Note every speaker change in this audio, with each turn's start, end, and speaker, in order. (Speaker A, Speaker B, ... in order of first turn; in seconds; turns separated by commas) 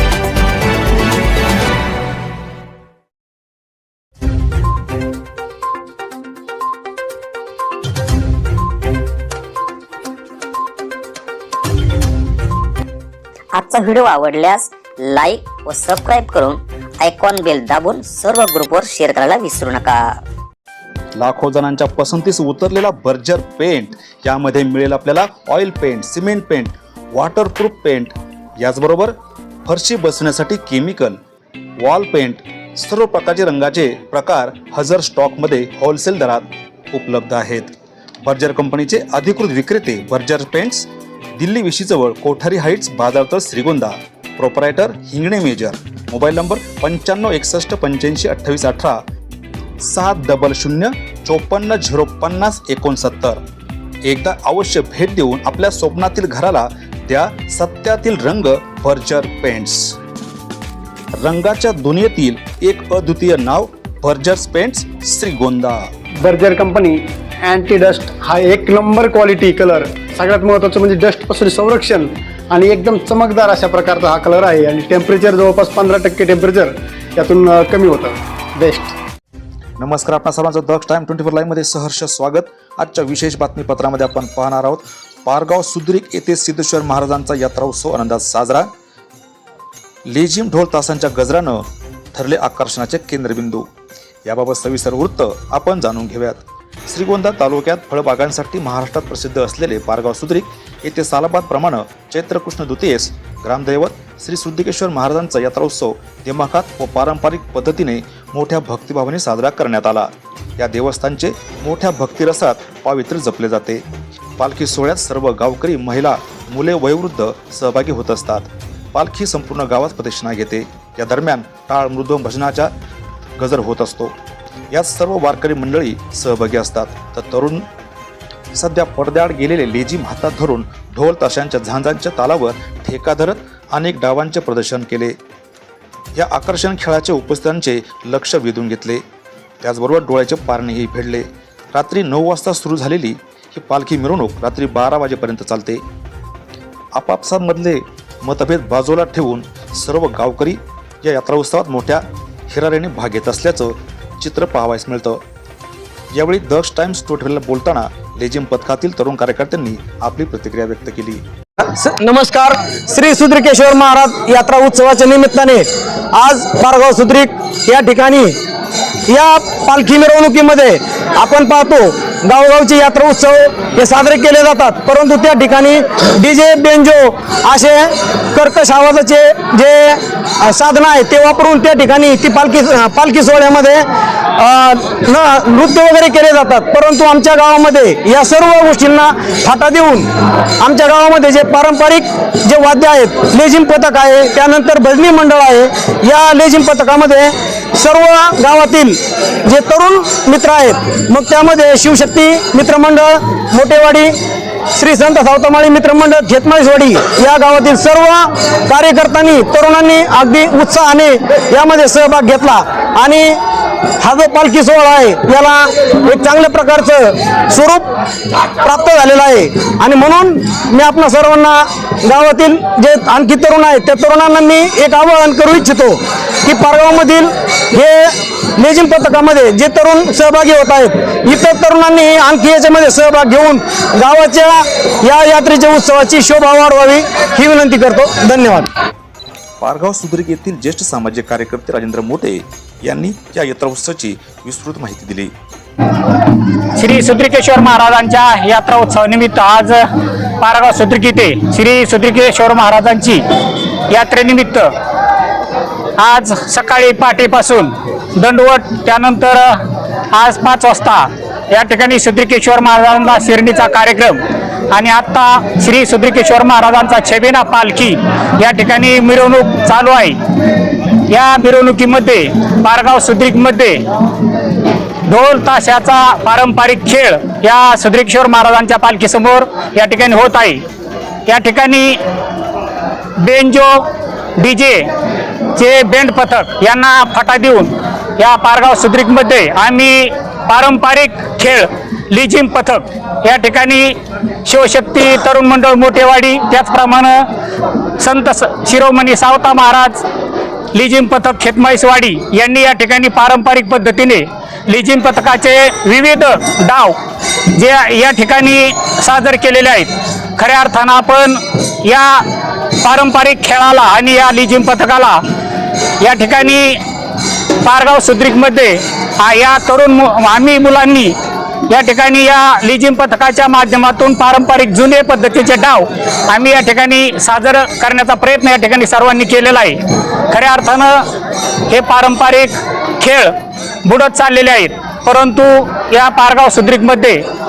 Speaker A: 13.5-20.1, Speaker B: 21.2-29.1, Speaker B: 29.6-31.2, Speaker B: 31.8-37.7, Speaker B: 38.2-49.0, Speaker B: 49.8-53.4, Speaker B: 54.0-60.0, Speaker B: 61.2-65.9, Speaker C: 66.2-78.9, Speaker B: 79.8-88.7, Speaker B: 90.1-91.6, Speaker B: 92.1-93.7, Speaker B: 94.2-113.8, Speaker B: 114.4-122.7, Speaker B: 123.4-124.1, Speaker B: 124.7-127.7, Speaker B: 128.5-135.2, Speaker B: 136.2-139.0, Speaker B: 139.6-145.8, Speaker B: 146.9-155.2, Speaker B: 156.1-161.2, Speaker D: 161.7-168.3, Speaker D: 169.1-190.1, Speaker D: 190.6-204.1, Speaker D: 204.7-213.3, Speaker D: 214.0-215.6, Speaker D: 216.1-217.7, Speaker D: 218.8-220.3, Speaker E: 220.3-231.2, Speaker D: 220.9-221.5, Speaker D: 229.5-230.8, Speaker E: 232.0-232.9, Speaker D: 232.1-234.6, Speaker E: 233.6-234.3, Speaker D: 235.1-236.6, Speaker E: 236.4-238.7, Speaker D: 237.2-237.6, Speaker B: 239.6-245.3, Speaker E: 246.8-249.8, Speaker E: 250.4-253.2, Speaker E: 253.9-254.7, Speaker E: 256.0-259.6, Speaker E: 260.1-264.2, Speaker E: 264.7-270.2, Speaker E: 271.1-273.8, Speaker E: 275.1-280.6, Speaker E: 281.3-282.0, Speaker E: 283.2-283.8, Speaker E: 284.4-284.9, Speaker E: 285.6-297.2, Speaker E: 298.0-300.0, Speaker E: 300.7-307.0, Speaker E: 307.5-312.2, Speaker E: 312.8-315.2, Speaker E: 316.0-316.8, Speaker E: 317.6-321.1, Speaker E: 321.7-331.0, Speaker E: 331.7-333.3, Speaker E: 333.8-337.2